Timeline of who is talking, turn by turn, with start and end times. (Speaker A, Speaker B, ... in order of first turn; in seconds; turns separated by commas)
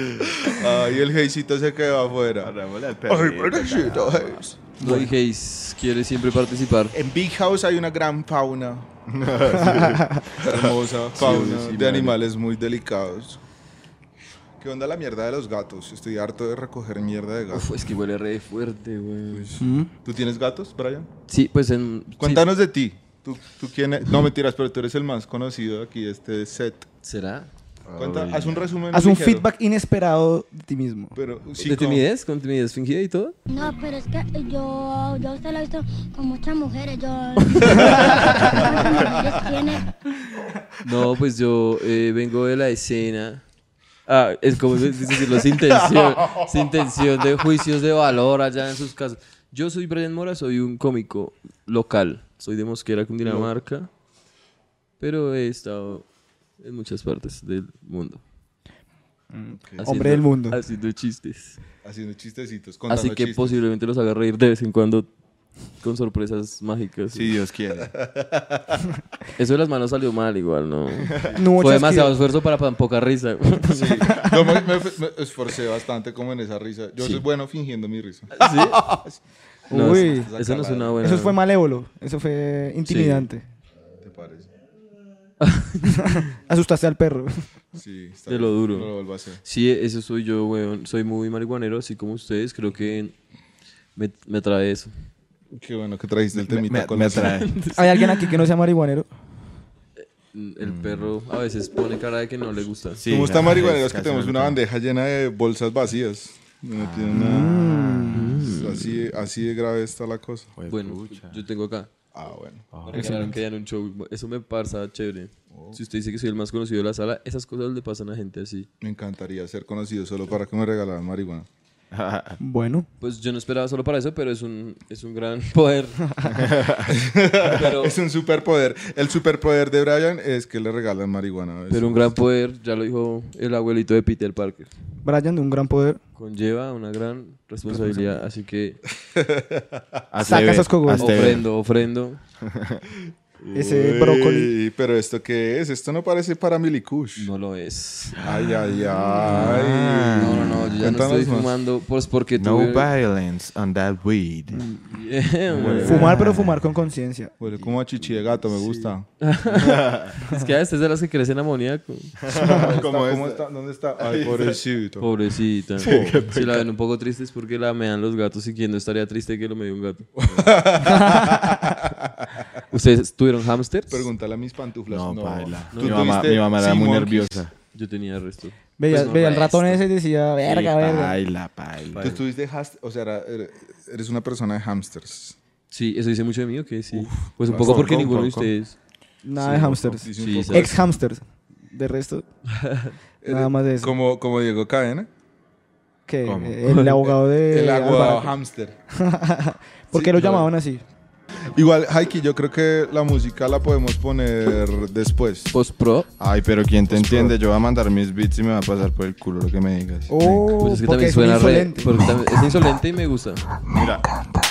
Speaker A: 0.4-2.5, Speaker B: 2.4-4.4, Speaker A: 3.1-4.7, Speaker C: 4.8-5.1, Speaker D: 4.8-7.0, Speaker A: 6.9-8.9, Speaker B: 9.1-11.3, Speaker A: 9.5-13.4, Speaker D: 11.2-12.2, Speaker A: 14.6-17.9, Speaker D: 17.5-19.5, Speaker A: 19.3-21.1, Speaker C: 19.6-19.9, Speaker D: 21.3-22.5, Speaker A: 22.2-26.9, Speaker D: 27.0-27.5, Speaker B: 27.9-28.7, Speaker A: 27.9-29.5, Speaker C: 28.9-31.2, Speaker A: 31.1-32.0, Speaker D: 31.6-33.4, Speaker E: 33.5-39.9, Speaker D: 37.5-38.6, Speaker D: 40.8-43.4, Speaker D: 44.1-53.9, Speaker A: 53.2-53.5, Speaker D: 55.0-56.1, Speaker D: 56.6-58.2, Speaker C: 59.3-60.6, Speaker A: 59.5-59.9, Speaker D: 59.8-61.6, Speaker A: 61.8-63.6, Speaker D: 62.9-65.1, Speaker D: 65.8-67.3, Speaker B: 67.1-67.9, Speaker A: 67.8-68.8, Speaker D: 69.4-74.3, Speaker C: 71.3-72.2, Speaker A: 73.7-79.2, Speaker D: 78.3-78.9, Speaker C: 79.7-80.3, Speaker D: 79.7-81.4, Speaker A: 80.2-81.0, Speaker C: 81.0-83.5, Speaker D: 82.9-83.3, Speaker A: 84.0-84.5, Speaker D: 85.4-86.2, Speaker C: 86.0-87.3, Speaker A: 87.7-89.4, Speaker D: 88.3-88.9, Speaker D: 89.5-93.1, Speaker D: 94.0-94.9, Speaker A: 95.5-97.4, Speaker B: 96.3-97.5, Speaker D: 97.2-98.3, Speaker C: 97.7-99.1, Speaker D: 100.0-103.0, Speaker B: 100.6-101.1, Speaker B: 103.0-104.6, Speaker A: 103.1-110.5, Speaker B: 106.7-107.9, Speaker C: 107.1-108.4, Speaker D: 108.1-109.1, Speaker B: 110.6-111.4, Speaker D: 110.7-111.9, Speaker A: 112.2-112.7, Speaker B: 112.7-113.2, Speaker D: 112.9-118.7, Speaker C: 113.0-113.3, Speaker A: 115.5-115.8, Speaker A: 118.8-121.5, Speaker B: 121.9-122.4, Speaker C: 122.4-122.9, Speaker D: 123.0-126.0, Speaker B: 126.3-127.0, Speaker A: 126.9-132.1, Speaker D: 127.5-128.0, Speaker D: 131.7-134.7, Speaker C: 135.0-136.0, Speaker D: 136.2-138.8, Speaker A: 137.7-138.2, Speaker A: 139.1-140.0, Speaker B: 140.1-141.5, Speaker C: 140.2-141.2, Speaker D: 141.0-142.2, Speaker B: 142.4-142.8, Speaker A: 143.4-147.3, Speaker C: 143.5-144.5, Speaker D: 147.2-148.2, Speaker B: 148.2-150.9, Speaker A: 148.2-151.5, Speaker D: 150.2-152.9, Speaker B: 152.4-154.7, Speaker C: 154.5-154.9, Speaker D: 154.9-156.2, Speaker B: 155.5-156.6, Speaker A: 155.6-156.0, Speaker C: 155.9-157.3, Speaker A: 157.4-159.1, Speaker B: 157.7-158.9, Speaker D: 159.2-162.2, Speaker B: 159.6-160.1, Speaker B: 162.2-163.4, Speaker A: 162.4-165.1, Speaker B: 164.0-164.6, Speaker D: 165.0-170.1, Speaker B: 165.8-166.7, Speaker A: 170.2-172.3, Speaker C: 170.8-171.6, Speaker D: 172.7-174.1, Speaker A: 173.9-177.5, Speaker B: 174.9-177.5, Speaker D: 175.7-176.2, Speaker D: 177.7-179.8, Speaker C: 178.8-181.2, Speaker B: 180.4-182.2, Speaker A: 182.0-185.4, Speaker D: 185.7-188.8, Speaker A: 186.9-188.0, Speaker B: 187.5-188.5, Speaker C: 189.2-192.2, Speaker A: 189.4-190.8, Speaker D: 190.2-190.8, Speaker D: 192.6-192.9, Speaker A: 193.2-195.1, Speaker C: 193.3-193.9, Speaker C: 196.1-198.3, Speaker B: 196.2-196.6, Speaker D: 196.7-196.9, Speaker A: 197.1-198.8, Speaker C: 198.9-200.8, Speaker D: 200.2-200.4, Speaker A: 201.6-205.6, Speaker D: 205.5-206.1, Speaker B: 206.2-210.5, Speaker A: 206.8-207.4, Speaker C: 210.1-212.0, Speaker D: 210.6-213.4, Speaker B: 213.7-214.1